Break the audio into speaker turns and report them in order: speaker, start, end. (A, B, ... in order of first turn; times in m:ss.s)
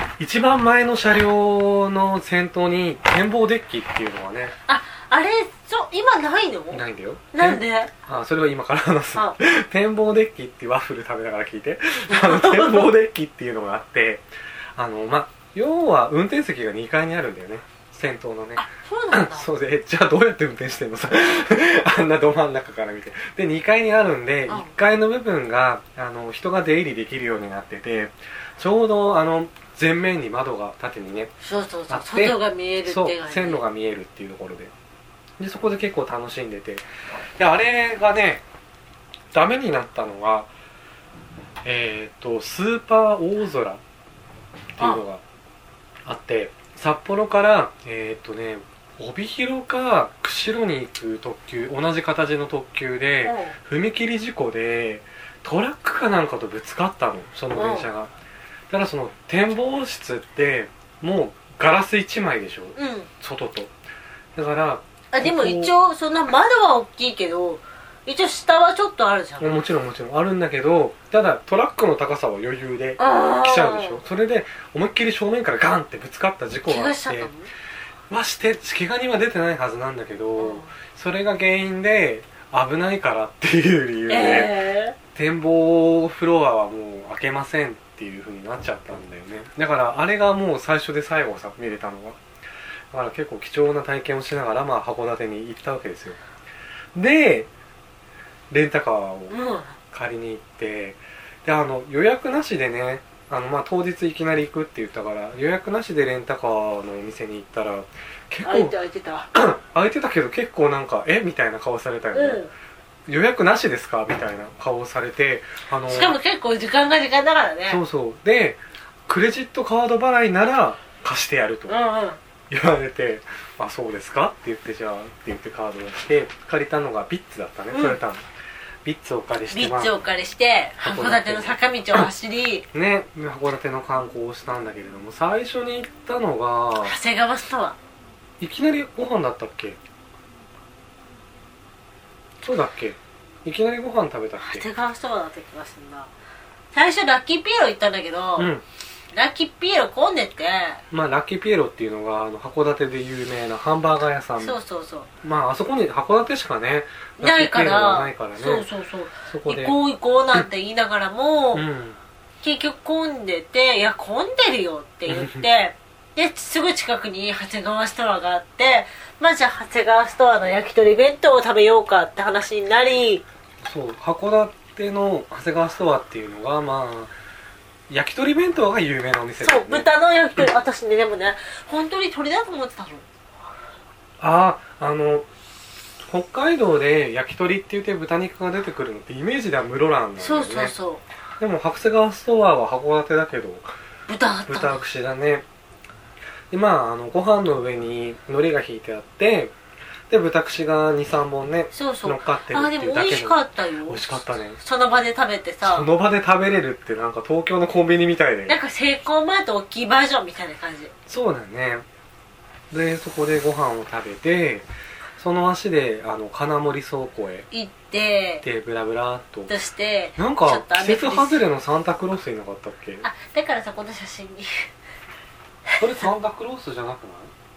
0:00.2-0:04.6 A
0:04.7-0:07.9 B
0:06.7-0:14.2 A
0:12.1-0:12.9 B
0:14.8-0:31.3 A
0:18.6-0:19.5 B
0:24.5-0:24.8 B
0:31.4-0:33.6 B
0:31.9-0:34.7 A
0:35.4-0:36.8 A
0:37.4-0:38.4 A
0:39.3-0:40.5 A
0:41.6-0:43.8 A
0:44.8-0:45.2 A
0:46.0-0:58.1 A
0:53.2-0:53.6 B
0:57.6-0:57.9 B
0:58.7-1:03.7 A
1:02.8-1:03.1 B
1:04.4-1:05.7 A
1:05.1-1:09.5 B
1:09.4-1:17.3 A
1:13.0-1:14.0 B
1:16.7-1:17.5 B
1:18.1-1:24.6 A
1:20.4-1:20.7 B
1:24.1-1:25.0 B
1:25.1-1:32.2 A
1:32.9-1:36.2 A
1:36.9-1:37.5 A
1:38.5-1:39.4 A
1:39.3-1:39.8 B
1:39.9-1:48.8 A
1:48.4-1:49.3 B
1:49.3-1:52.4 A
1:52.1-1:52.5 B
1:53.1-1:56.2 A
1:55.9-1:57.8 B
1:57.7-2:01.8 A
2:01.7-2:02.2 B
2:02.5-2:08.2 A
2:07.7-2:08.0 B
2:08.8-2:10.0 A
2:09.5-2:12.7 B
2:10.8-2:12.1 A
2:12.7-2:17.0 A
2:16.8-2:17.8 B
2:18.4-2:19.8 A
2:22.4-2:24.7 A
2:24.4-2:26.1 B
2:26.7-2:28.5 B
2:28.4-2:28.6 A
2:29.1-2:30.8 B
2:30.9-2:34.6 A
2:34.4-2:35.1 B
2:35.2-2:38.7 A
2:37.2-2:41.6 B
2:39.3-2:39.8 A
2:41.5-2:42.0 A
2:42.4-2:53.2 B
2:45.1-2:45.5 A
2:53.6-2:57.1 A
2:57.9-3:00.5 A
2:59.4-3:03.1 B
3:04.2-3:05.3 A
3:06.1-3:10.7 A
3:10.2-3:11.0 B
3:11.4-3:13.7 A
3:14.1-3:14.8 B
3:14.5-3:15.4 A
3:16.5-3:19.5 A
3:20.1-3:24.6 A
3:21.7-3:25.9 B
3:25.6-3:28.6 A
3:28.5-3:30.9 B
3:31.1-3:31.8 A
3:32.7-3:34.7 A
3:35.2-3:37.5 A
3:37.5-3:38.4 B
3:38.4-3:39.5 A
3:39.5-3:41.4 B
3:40.2-3:43.1 A
3:43.0-3:44.6 B
3:45.7-3:46.1 B
3:45.8-3:47.3 A